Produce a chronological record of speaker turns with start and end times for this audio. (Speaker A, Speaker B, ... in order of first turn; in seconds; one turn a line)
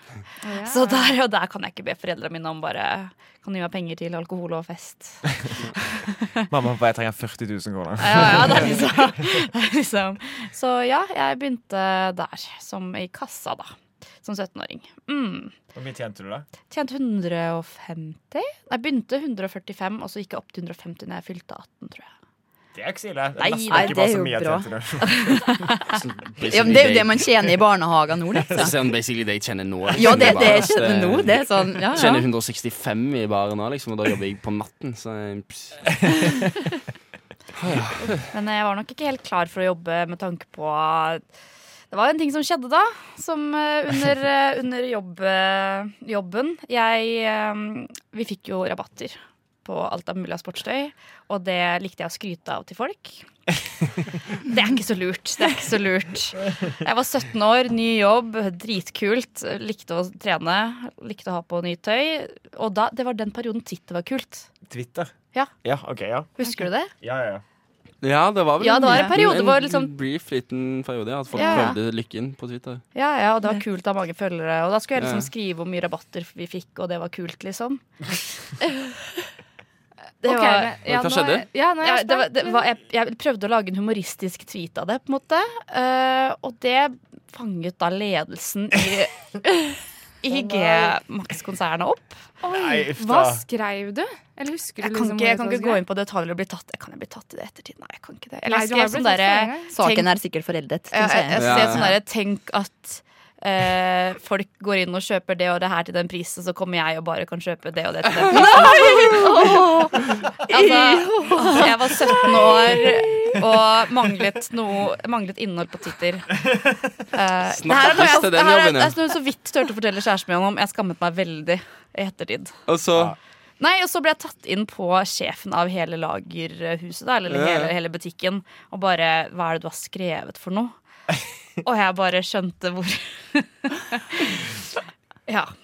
Speaker A: 0.4-1.1
Speaker B: 0.6-5.2
Speaker B: 5.8-6.3
Speaker C: 6.5-9.3
Speaker B: 8.0-13.7
Speaker B: 14.2-15.5
Speaker C: 15.7-16.5
Speaker B: 16.7-22.1
Speaker C: 22.7-25.7
Speaker B: 23.4-24.0
Speaker D: 23.7-24.7
Speaker B: 25.3-25.5
Speaker E: 25.9-27.6
Speaker D: 26.5-28.7
Speaker E: 28.5-36.0
Speaker D: 29.9-32.3
Speaker E: 37.6-38.2
Speaker B: 38.2-41.2
Speaker B: 41.9-53.3
Speaker B: 54.4-64.5
Speaker C: 64.7-65.1
Speaker C: 65.6-66.3
Speaker B: 66.4-66.9
Speaker C: 67.0-67.4
Speaker E: 68.0-72.8
Speaker B: 68.6-69.9
Speaker B: 71.3-71.8
Speaker B: 73.0-77.8
Speaker E: 75.0-75.3
Speaker B: 80.2-80.7
Speaker A: 80.2-82.6
Speaker E: 80.8-81.5
Speaker B: 81.8-92.2
Speaker A: 90.3-91.0
Speaker A: 92.4-95.8
Speaker C: 92.5-93.4
Speaker B: 94.8-100.1
Speaker A: 98.5-99.7
Speaker D: 99.7-101.9
Speaker B: 100.9-109.6
Speaker E: 101.4-101.9
Speaker D: 108.3-112.5
Speaker B: 110.5-116.4
Speaker B: 117.1-122.5
Speaker E: 117.5-119.0
Speaker E: 122.7-123.2
Speaker B: 123.6-130.7
Speaker E: 127.3-127.7
Speaker B: 131.6-134.4
Speaker B: 135.3-135.5